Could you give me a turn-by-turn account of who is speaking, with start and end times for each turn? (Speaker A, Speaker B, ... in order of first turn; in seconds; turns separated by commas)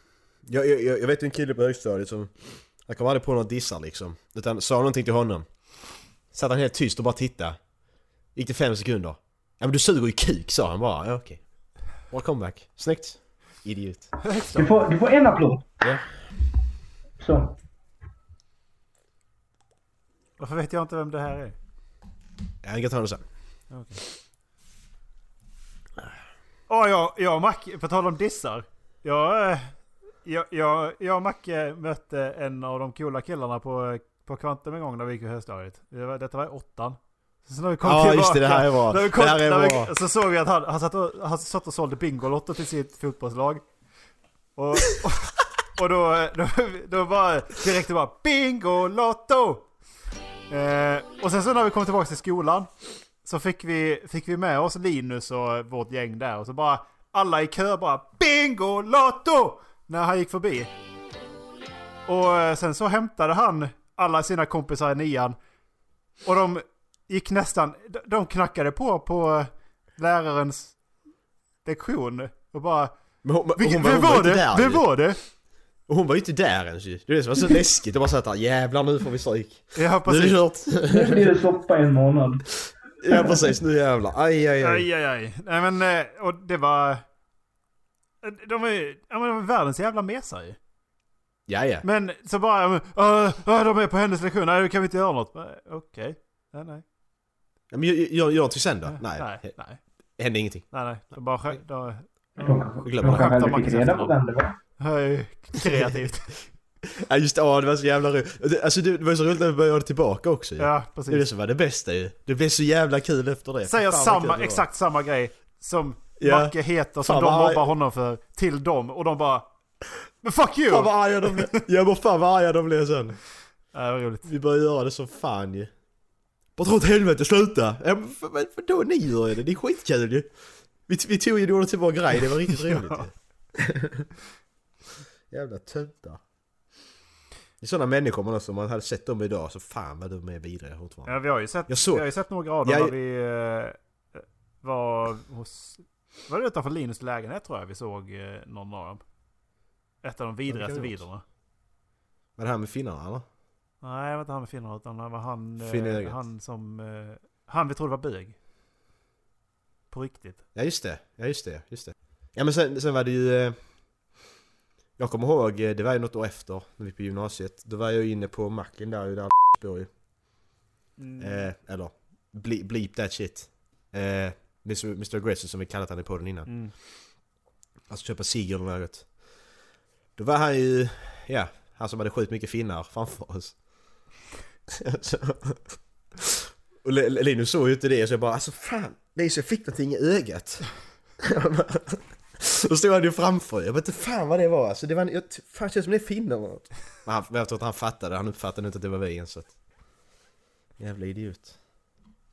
Speaker A: 0.5-5.5, Speaker A: 6.3-7.6, Speaker A: 8.3-11.5, Speaker A: 12.1-14.2, Speaker B: 14.2-14.7, Speaker C: 14.6-15.7, Speaker C: 17.2-17.6, Speaker B: 20.4-21.6, Speaker A: 22.6-23.2, Speaker B: 23.7-24.0, Speaker B: 26.7-43.6, Speaker A: 37.8-39.9, Speaker B: 44.5-49.7, Speaker B: 50.5-52.7, Speaker B: 53.2-60.7, Speaker B: 62.1-65.4, Speaker B: 66.2-70.8, Speaker B: 71.7-72.9, Speaker A: 73.2-74.9, Speaker B: 73.5-75.2, Speaker A: 75.9-81.2, Speaker B: 79.8-80.4, Speaker C: 80.9-82.5, Speaker A: 83.0-84.9, Speaker B: 84.6-87.0, Speaker B: 88.2-90.6, Speaker A: 91.5-91.8, Speaker B: 91.8-96.8, Speaker A: 97.7-99.5, Speaker B: 98.9-99.8, Speaker A: 100.2-100.7, Speaker B: 100.7-104.2, Speaker C: 102.4-104.6, Speaker A: 102.8-103.3, Speaker B: 104.8-106.4, Speaker A: 107.0-114.7, Speaker B: 110.6-111.3, Speaker B: 113.7-119.5, Speaker A: 116.2-117.7, Speaker B: 120.2-121.6, Speaker A: 120.7-123.2, Speaker B: 123.7-124.3, Speaker A: 124.3-125.7, Speaker A: 126.6-130.3, Speaker A: 130.8-134.1, Speaker B: 132.5-133.1, Speaker A: 135.3-136.2, Speaker A: 137.6-141.1, Speaker B: 141.1-149.0, Speaker A: 141.7-142.1, Speaker A: 142.6-142.9, Speaker B: 150.0-151.2, Speaker A: 150.5-151.0, Speaker A: 152.4-153.2, Speaker B: 153.8-158.4, Speaker A: 155.6-156.2, Speaker B: 159.9-160.4, Speaker A: 160.6-163.6, Speaker A: 165.0-169.9, Speaker B: 171.0-171.5, Speaker A: 171.2-176.5, Speaker B: 176.5-176.7, Speaker A: 177.9-179.2, Speaker A: 180.2-183.6, Speaker A: 184.8-199.5, Speaker A: 200.8-201.6